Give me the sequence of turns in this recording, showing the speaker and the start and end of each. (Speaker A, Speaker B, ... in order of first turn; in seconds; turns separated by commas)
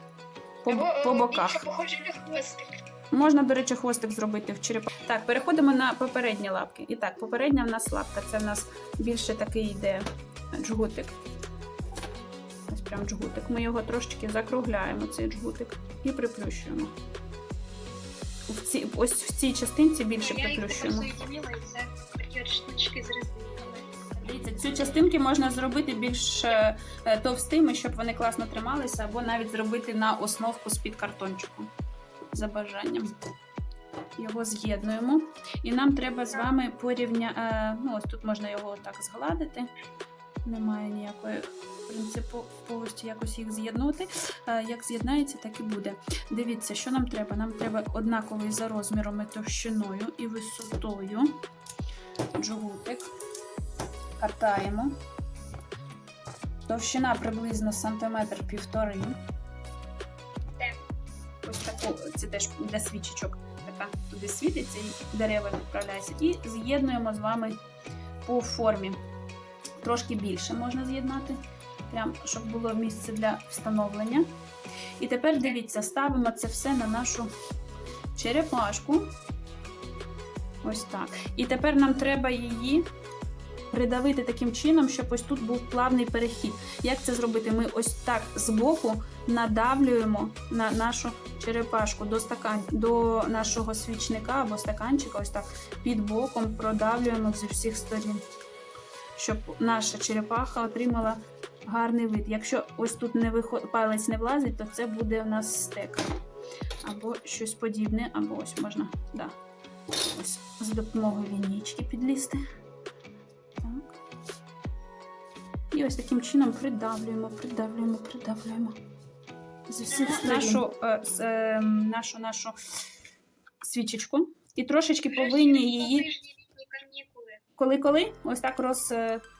Speaker A: 0.6-1.6, Speaker B: 0.7-2.8, Speaker A: 3.1-11.1, Speaker A: 12.7-16.9, Speaker A: 18.5-21.1, Speaker B: 20.2-23.9, Speaker A: 24.2-31.7, Speaker A: 32.3-33.1, Speaker A: 34.2-39.7, Speaker A: 40.4-51.3, Speaker A: 52.4-53.1, Speaker A: 54.2-54.9, Speaker A: 56.7-59.2, Speaker A: 61.4-67.6, Speaker A: 68.2-69.0, Speaker A: 69.8-74.3, Speaker A: 75.0-77.3, Speaker A: 78.1-79.1, Speaker A: 80.6-82.8, Speaker A: 83.7-98.2, Speaker A: 99.2-106.0, Speaker A: 106.8-109.3, Speaker A: 109.9-112.4, Speaker A: 113.6-114.0, Speaker A: 115.7-118.8, Speaker A: 119.7-122.6, Speaker B: 119.9-120.6, Speaker A: 123.6-126.1, Speaker B: 125.1-127.4, Speaker A: 127.6-129.2